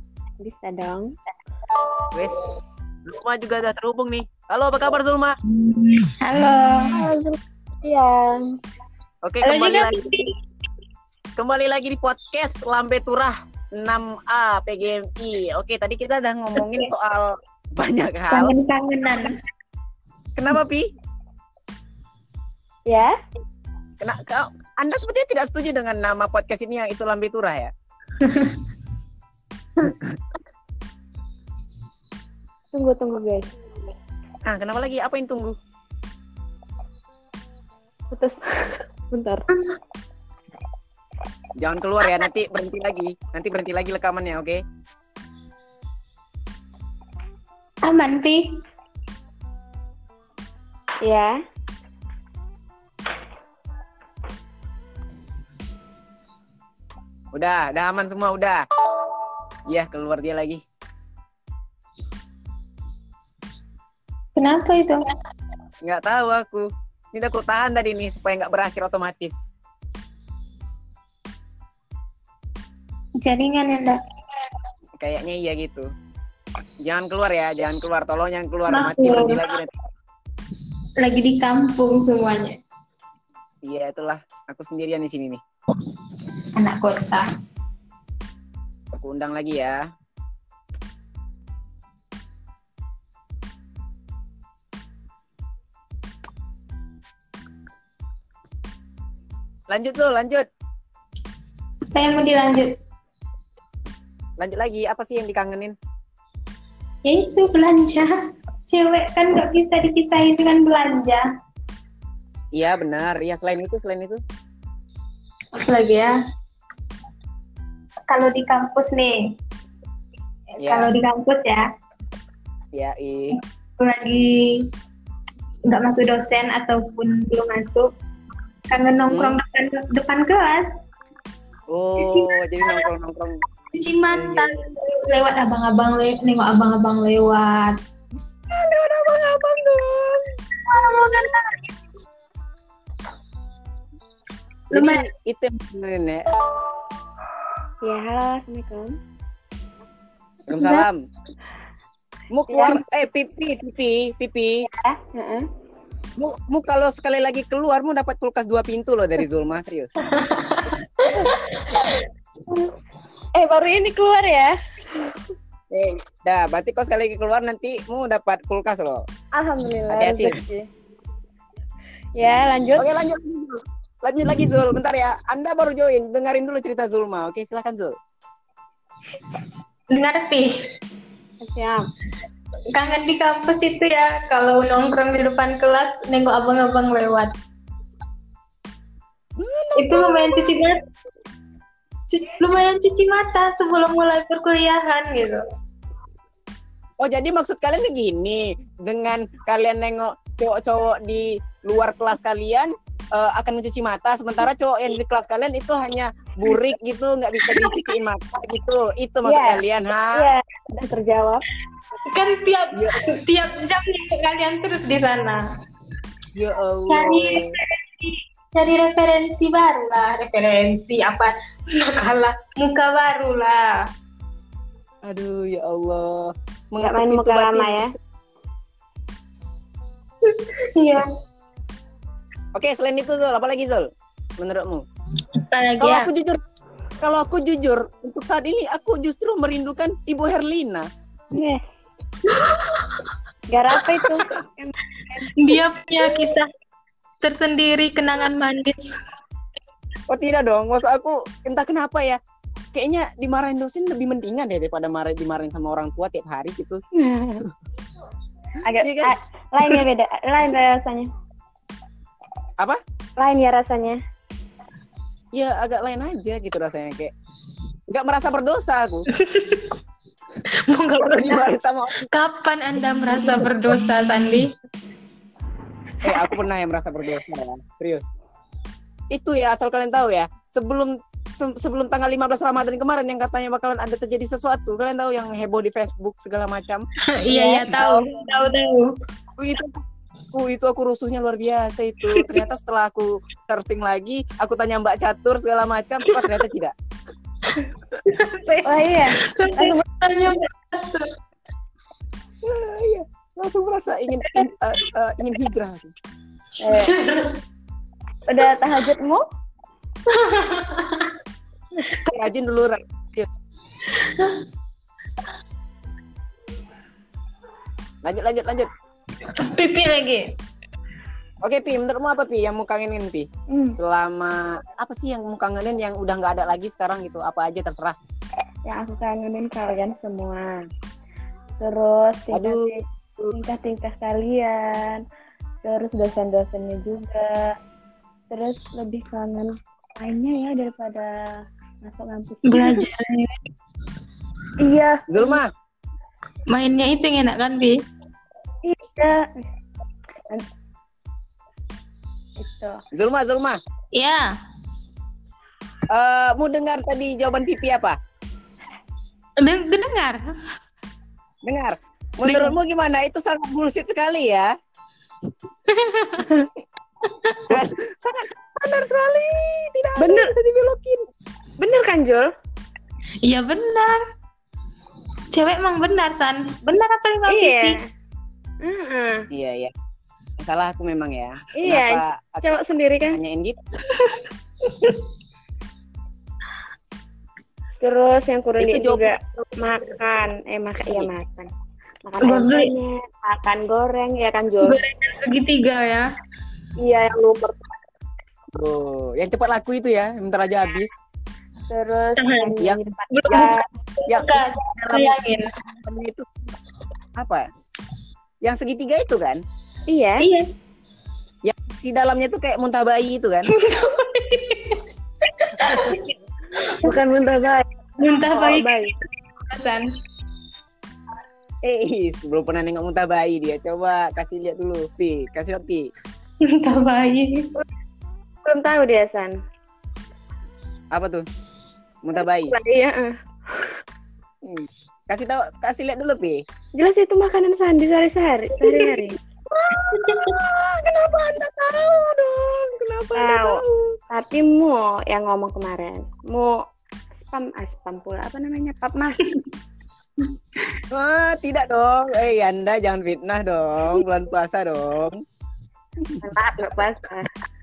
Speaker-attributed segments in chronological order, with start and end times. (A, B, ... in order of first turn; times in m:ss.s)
0:00.4-0:01.1 A
0:02.1-0:05.4 B
0:05.5-0:07.0 C
0:06.9-0:08.4 A
0:09.2-0:10.3 B
0:09.4-0:10.3 C
0:11.4-0:18.5 B
0:16.6-0:16.9 C
0:18.3-0:19.4 C
0:20.4-0:20.9 B
0:22.9-0:23.1 A
0:24.0-0:27.7 B
0:28.2-0:28.6 C
0:29.8-0:30.2 B
0:32.7-0:33.5 A
0:34.4-0:35.6 B
0:38.1-0:39.4 A
0:41.6-0:44.6 B
0:47.8-0:48.5 C
0:51.0-0:51.4 A
0:57.3-0:58.6 B
0:59.7-1:00.6 B
1:04.4-1:05.1 C
1:05.8-1:09.4 B
1:13.2-1:14.0 C
1:15.0-1:15.9 B
1:16.8-1:19.7 B
1:18.7-1:19.5 C
1:21.0-1:22.6 C
1:23.6-1:25.4 B
1:26.5-1:27.3 C
1:28.9-1:29.8 B
1:39.7-1:40.5 B
1:41.9-1:42.8 C
1:44.4-1:45.8 B
1:47.0-1:48.1 C
1:48.7-1:51.2 C
1:52.5-1:54.2 B
1:55.5-1:56.2 C
1:58.1-1:59.3 C
2:00.5-2:01.7 C
2:00.6-2:00.9 B
2:02.7-2:03.4 B
2:03.3-2:04.7 C
2:05.7-2:07.9 C
2:08.7-2:10.7 C
2:09.1-2:09.4 B
2:11.7-2:13.4 B
2:12.0-2:12.9 C
2:13.7-2:17.8 C
2:14.1-2:14.5 B
2:18.5-2:20.3 B
2:20.6-2:21.7 C
2:24.7-2:26.2 B
2:24.7-2:25.0 C
2:27.8-2:29.0 A
2:30.5-2:31.0 B
2:30.6-2:30.8 C
2:32.3-2:34.6 B
2:32.5-2:32.8 A
2:34.7-2:35.5 A
2:36.2-2:39.9 B
2:40.1-2:41.7 C
2:43.4-2:45.1 A
2:45.7-2:49.0 B
2:49.4-2:50.6 A
2:49.9-2:50.4 B
2:52.2-2:52.8 A
2:52.8-2:58.0 B
2:59.9-3:00.5 C
3:01.4-3:01.9 A
3:02.7-3:07.3 C
3:09.4-3:10.6 B
3:09.8-3:10.8 C
3:12.1-3:15.4 C
3:17.0-3:30.3 B
3:27.4-3:27.8 C
3:29.2-3:29.6 A
3:30.1-3:31.4 A
3:32.0-3:35.4 C
3:32.7-3:33.0 B
3:36.3-3:37.5 B
3:36.9-3:43.9 C
3:45.0-3:47.9 B
3:46.8-3:47.9 A
3:50.2-3:51.1 C
3:52.5-3:53.9 B
3:54.4-3:54.8 B
3:55.4-3:56.1 C
3:55.8-3:56.4 B
3:57.0-4:00.9 B
4:01.3-4:01.7 A
4:02.3-4:03.0 C
4:03.5-4:05.3 A
4:05.4-4:06.5 C
4:07.2-4:08.9 C
4:10.1-4:12.2 B
4:12.7-4:16.8 B
4:16.9-4:17.4 A
4:18.7-4:21.1 A
4:18.8-4:19.1 B
4:23.2-4:24.0 A
4:25.3-4:27.1 B
4:27.9-4:29.1 B
4:29.1-4:29.8 C
4:30.5-4:34.5 C
4:31.0-4:32.1 B
4:33.3-4:33.8 B
4:36.0-4:38.1 B
4:39.1-4:46.9 B
4:47.1-4:48.9 C
4:47.3-4:48.0 A
4:49.4-4:49.8 B
4:50.3-4:56.7 B
4:52.1-4:52.4 C
4:56.1-4:56.4 C
4:57.5-5:01.1 C
4:58.6-4:59.8 A
5:02.4-5:05.9 B
5:06.6-5:07.0 A
5:06.7-5:07.4 C
5:08.3-5:09.2 A
5:10.1-5:11.1 C
5:11.9-5:13.4 B
5:13.9-5:14.4 C
5:18.0-5:18.7 B
5:19.4-5:20.3 C
5:21.4-5:28.0 B
5:23.5-5:23.8 A
5:28.7-5:30.6 A
5:31.6-5:32.8 A
5:32.3-5:33.3 B
5:33.3-5:35.0 A
5:35.6-5:37.5 A
5:38.3-5:41.2 A
5:41.8-5:42.8 A
5:42.5-5:43.5 C
5:44.6-5:45.4 A
5:45.1-5:45.5 B
5:46.5-5:47.8 C
5:48.6-5:49.2 A
5:52.4-5:52.8 A
5:52.9-5:53.6 B
5:53.9-5:54.3 C
5:55.9-5:58.0 B
5:59.4-6:00.4 C
6:01.4-6:04.5 B
6:02.3-6:02.5 A
6:05.7-6:06.2 C
6:06.2-6:06.5 A
6:07.5-6:11.0 B
6:10.0-6:10.3 A
6:11.6-6:12.3 A
6:13.2-6:14.0 C
6:15.3-6:17.8 C
6:17.3-6:17.8 A
6:18.6-6:19.2 A
6:19.3-6:19.7 B
6:20.4-6:22.4 B
6:21.6-6:23.2 A
6:23.1-6:23.6 B
6:23.9-6:25.0 C
6:27.8-6:31.5 A
6:28.6-6:29.5 B
6:32.1-6:34.8 A
6:32.2-6:32.7 C
6:34.6-6:36.1 C
6:36.8-6:37.8 A
6:38.6-6:41.0 B
6:41.7-6:43.6 A
6:42.2-6:42.6 C
6:42.6-6:43.5 B
6:43.1-6:45.6 C
6:44.1-6:46.3 B
6:47.2-6:47.5 B
6:48.4-6:49.4 B
6:49.9-6:50.3 A
6:50.2-6:50.5 C
6:51.4-6:53.5 B
6:53.5-6:56.9 C
6:55.6-6:55.9 B
6:56.7-6:57.7 A
6:58.0-6:59.9 C
6:58.3-6:58.9 A
7:01.6-7:05.8 B
7:06.4-7:07.5 C
7:08.4-7:09.3 A
7:10.9-7:11.2 B
7:12.0-7:12.5 B
7:12.5-7:13.7 A
7:14.4-7:16.4 B
7:16.8-7:19.2 A
7:19.5-7:24.0 B
7:19.9-7:20.4 C
7:23.2-7:23.6 A
7:24.1-7:26.6 A
7:27.2-7:29.2 A
7:30.9-7:35.2 B
7:36.0-7:36.8 B
7:36.2-7:37.3 A